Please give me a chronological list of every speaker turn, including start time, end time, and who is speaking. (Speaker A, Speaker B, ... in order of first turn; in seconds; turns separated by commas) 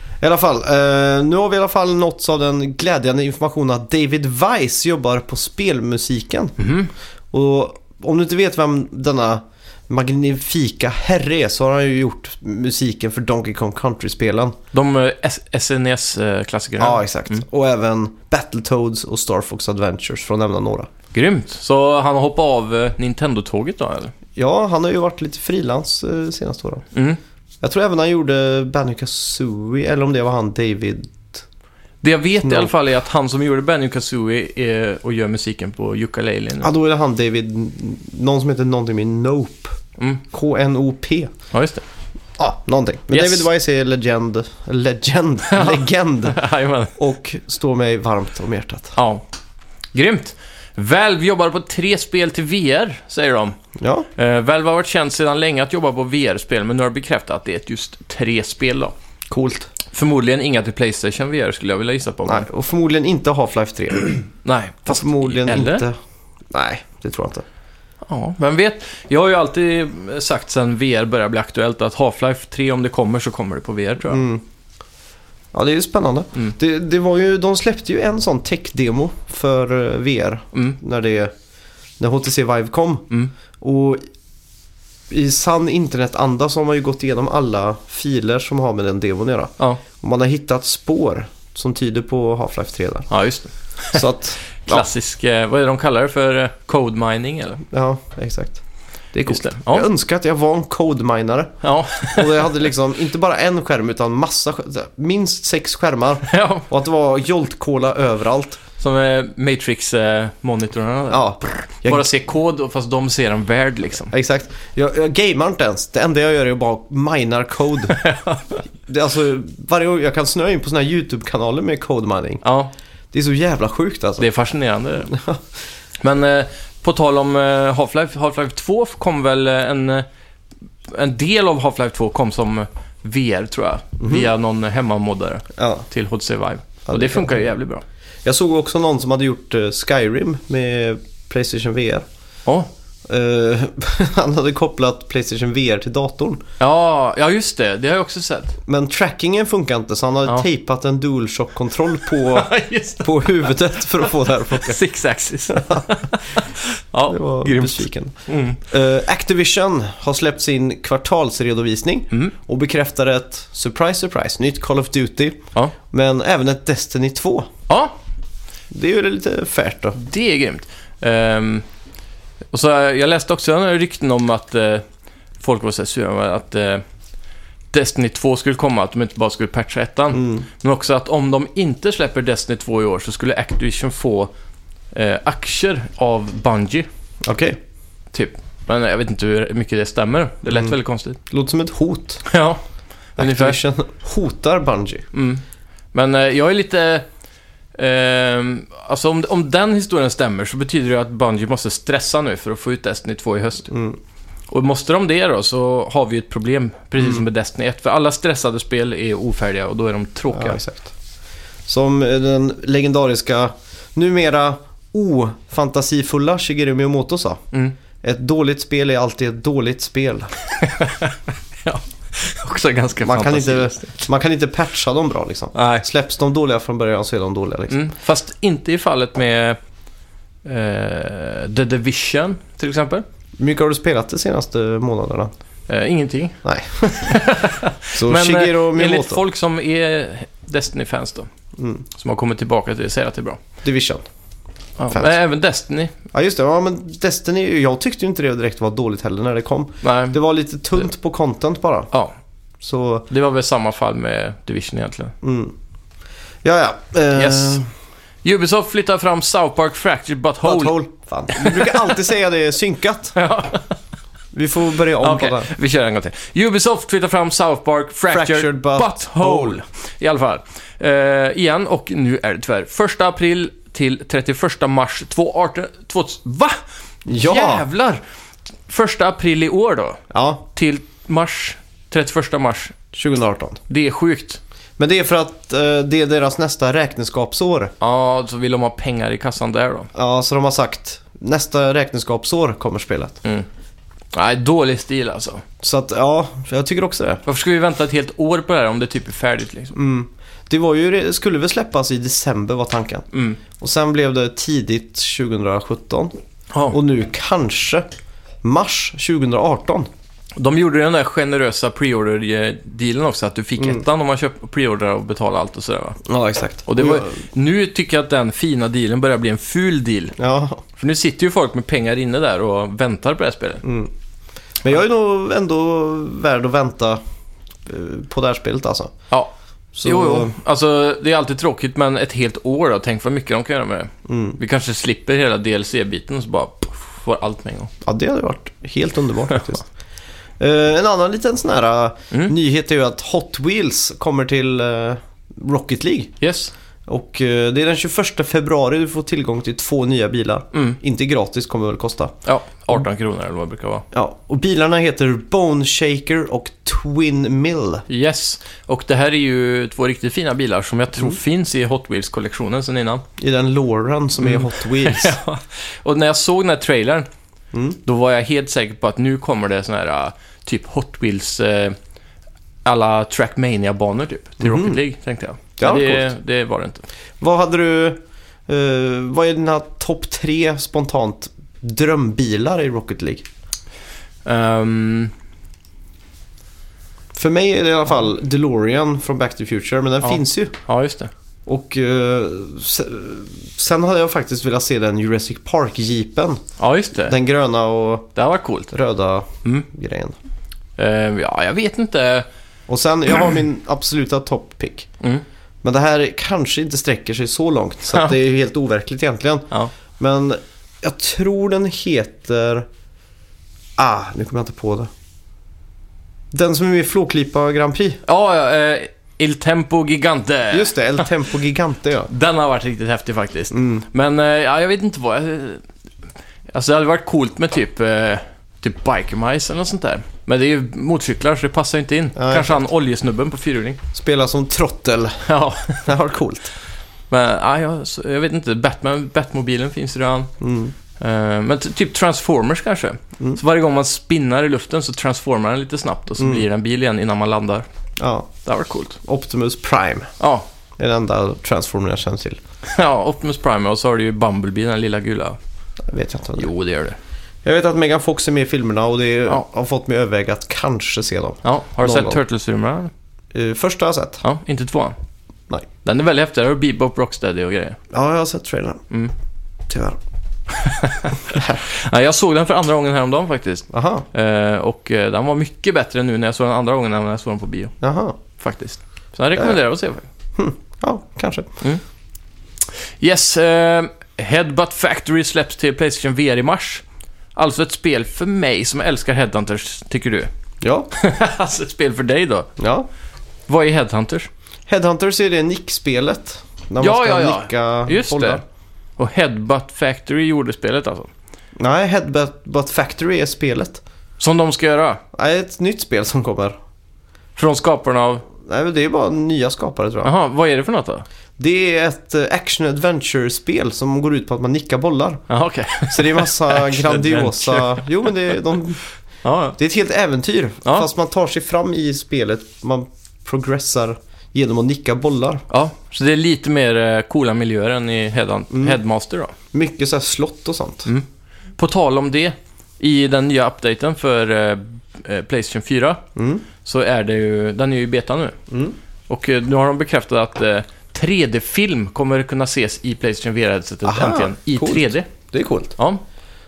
Speaker A: 0.2-6.6, Speaker B: 6.6-6.9, Speaker A: 7.3-14.6, Speaker B: 14.7-17.4, Speaker A: 16.8-20.9, Speaker B: 21.1-24.1, Speaker A: 24.4-26.9, Speaker B: 26.9-27.2, Speaker A: 27.6-31.4, Speaker B: 32.0-36.7, Speaker A: 32.4-32.7, Speaker A: 36.6-39.8, Speaker A: 40.3-41.3, Speaker B: 41.5-41.8, Speaker A: 42.4-46.4, Speaker B: 43.1-43.5, Speaker B: 45.5-47.0, Speaker A: 47.0-49.0, Speaker B: 49.0-49.2, Speaker B: 49.9-53.6, Speaker A: 53.8-54.1, Speaker B: 54.2-58.9, Speaker A: 59.3-59.7, Speaker B: 59.9-62.5, Speaker A: 62.3-64.3, Speaker B: 64.5-65.8, Speaker A: 64.9-66.0, Speaker A: 66.5-67.4, Speaker B: 68.1-74.2, Speaker A: 74.1-74.4, Speaker A: 75.5-81.3, Speaker A: 82.0-84.0, Speaker A: 85.1-93.1, Speaker B: 93.1-97.6, Speaker A: 93.9-94.9, Speaker A: 97.7-98.6, Speaker A: 99.1-108.6, Speaker B: 99.3-99.9, Speaker B: 101.6-102.5, Speaker B: 106.3-106.7, Speaker B: 108.8-114.1, Speaker A: 111.1-112.1, Speaker A: 114.1-118.0, Speaker B: 117.9-118.6, Speaker A: 118.9-122.4, Speaker B: 122.4-122.7, Speaker A: 123.1-124.3, Speaker B: 124.2-125.2, Speaker A: 125.1-125.4, Speaker B: 126.0-130.1, Speaker B: 130.9-137.8, Speaker A: 134.0-134.3, Speaker A: 135.6-135.8, Speaker A: 136.9-137.4, Speaker A: 138.2-142.1, Speaker A: 143.1-146.4, Speaker B: 146.6-148.6, Speaker A: 148.7-154.8, Speaker B: 152.1-153.4, Speaker B: 154.0-158.6, Speaker A: 155.5-155.8, Speaker A: 157.1-167.5, Speaker B: 167.7-167.9, Speaker A: 168.7-170.0, Speaker B: 170.0-171.7, Speaker B: 172.5-174.8, Speaker B: 175.4-176.8, Speaker B: 177.7-184.3, Speaker A: 180.1-180.4, Speaker B: 184.9-186.9, Speaker A: 187.2-187.6, Speaker B: 188.1-191.2, Speaker A: 191.3-192.2, Speaker B: 192.3-192.6, Speaker B: 193.2-193.6, Speaker A: 193.2-195.1, Speaker B: 195.1-195.4, Speaker B: 195.9-197.1, Speaker B: 197.8-203.7, Speaker A: 203.7-204.0, Speaker B: 204.5-210.6, Speaker A: 210.3-210.9, Speaker A: 211.7-217.4, Speaker A: 218.0-220.3, Speaker B: 220.6-224.0, Speaker A: 223.0-227.8, Speaker B: 225.6-225.8, Speaker B: 227.7-229.6, Speaker B: 230.4-233.0, Speaker A: 233.4-235.3, Speaker B: 235.7-241.3, Speaker A: 236.4-237.2, Speaker A: 237.9-239.2, Speaker A: 241.6-241.8, Speaker B: 241.9-243.4, Speaker A: 243.6-244.1, Speaker B: 244.8-245.9, Speaker A: 244.9-245.2, Speaker A: 246.1-251.9, Speaker B: 249.8-250.2, Speaker A: 252.6-253.1, Speaker B: 253.1-255.1, Speaker A: 255.2-255.5, Speaker A: 256.4-257.6, Speaker B: 257.1-257.6, Speaker B: 258.2-260.8, Speaker A: 260.4-263.1, Speaker B: 261.3-261.9, Speaker B: 263.1-263.8, Speaker A: 264.3-265.5, Speaker B: 265.0-276.6, Speaker A: 268.1-269.6, Speaker A: 277.1-277.7, Speaker B: 277.1-278.0, Speaker B: 278.7-280.0, Speaker A: 280.1-280.4, Speaker B: 280.5-282.8, Speaker A: 282.9-283.6, Speaker B: 283.7-284.4, Speaker A: 284.8-287.7, Speaker B: 287.8-289.9, Speaker A: 289.9-293.2, Speaker B: 294.1-295.4, Speaker A: 295.6-297.2, Speaker B: 297.3-299.8, Speaker A: 299.8-303.1, Speaker B: 303.1-303.4, Speaker A: 303.6-306.1, Speaker B: 306.5-306.8, Speaker A: 306.7-307.9, Speaker A: 308.4-309.9, Speaker B: 310.4-316.0, Speaker A: 316.1-317.1, Speaker B: 316.7-320.2, Speaker A: 320.2-320.6, Speaker B: 320.8-323.6, Speaker A: 323.6-323.9, Speaker A: 324.6-327.0, Speaker A: 327.7-328.9, Speaker A: 329.7-330.3, Speaker B: 329.8-337.7, Speaker A: 334.1-334.4, Speaker A: 337.8-339.7, Speaker A: 340.4-346.1, Speaker B: 346.2-346.5, Speaker A: 346.9-352.1, Speaker B: 350.5-350.8, Speaker B: 352.2-353.9, Speaker A: 353.9-357.9, Speaker B: 357.9-363.1, Speaker A: 363.2-365.2, Speaker B: 364.2-367.1, Speaker A: 367.5-367.8, Speaker B: 367.9-371.8, Speaker B: 372.6-376.9, Speaker A: 374.4-374.8, Speaker A: 375.6-376.1, Speaker A: 377.2-383.2, Speaker B: 384.2-385.1, Speaker A: 387.1-390.6, Speaker B: 390.0-391.1, Speaker A: 391.5-396.4, Speaker B: 396.6-397.2, Speaker A: 397.0-398.1, Speaker B: 398.2-398.7, Speaker A: 398.7-400.2, Speaker B: 400.8-402.3, Speaker A: 402.7-404.9, Speaker A: 405.6-412.7, Speaker A: 413.8-414.9, Speaker A: 416.3-418.0, Speaker B: 418.1-421.1, Speaker A: 420.5-422.1, Speaker B: 422.1-425.6, Speaker A: 423.5-423.9, Speaker B: 426.5-433.8, Speaker A: 432.2-432.6, Speaker A: 433.9-435.3, Speaker B: 435.2-435.9, Speaker A: 435.9-436.5, Speaker B: 437.1-440.3, Speaker A: 440.4-440.7, Speaker B: 441.0-447.7, Speaker A: 446.2-446.4, Speaker A: 448.0-448.3, Speaker B: 448.4-449.0, Speaker A: 449.0-450.1, Speaker B: 450.2-450.5, Speaker A: 450.8-452.4, Speaker B: 452.6-455.4, Speaker A: 455.8-456.5, Speaker B: 456.4-457.0, Speaker A: 457.4-462.2, Speaker B: 461.4-462.9, Speaker A: 463.3-464.2, Speaker B: 464.2-465.0, Speaker B: 465.8-467.8, Speaker A: 467.9-468.8, Speaker A: 469.7-470.0, Speaker B: 470.5-477.8, Speaker A: 471.3-471.6, Speaker A: 473.7-474.1, Speaker A: 477.8-478.2, Speaker B: 478.4-480.1, Speaker A: 480.4-481.6, Speaker B: 483.0-486.8, Speaker B: 487.4-490.3, Speaker A: 490.6-490.9, Speaker B: 490.9-492.5, Speaker A: 492.6-492.9, Speaker B: 493.5-494.3, Speaker A: 494.7-498.4, Speaker B: 496.8-498.4, Speaker B: 499.0-501.1, Speaker A: 501.6-503.8, Speaker B: 504.2-505.0, Speaker A: 505.1-506.6, Speaker B: 507.4-508.2, Speaker A: 508.4-510.1, Speaker B: 510.0-511.1, Speaker A: 511.4-515.2, Speaker B: 515.3-518.4, Speaker A: 515.9-518.8, Speaker B: 519.2-519.6, Speaker A: 519.6-525.5, Speaker B: 525.5-529.3, Speaker A: 528.5-528.8, Speaker A: 529.5-530.9, Speaker B: 531.6-536.0, Speaker A: 536.2-536.5, Speaker B: 536.6-538.4, Speaker A: 538.5-538.8, Speaker B: 539.1-545.1, Speaker A: 543.9-545.8, Speaker B: 545.8-546.0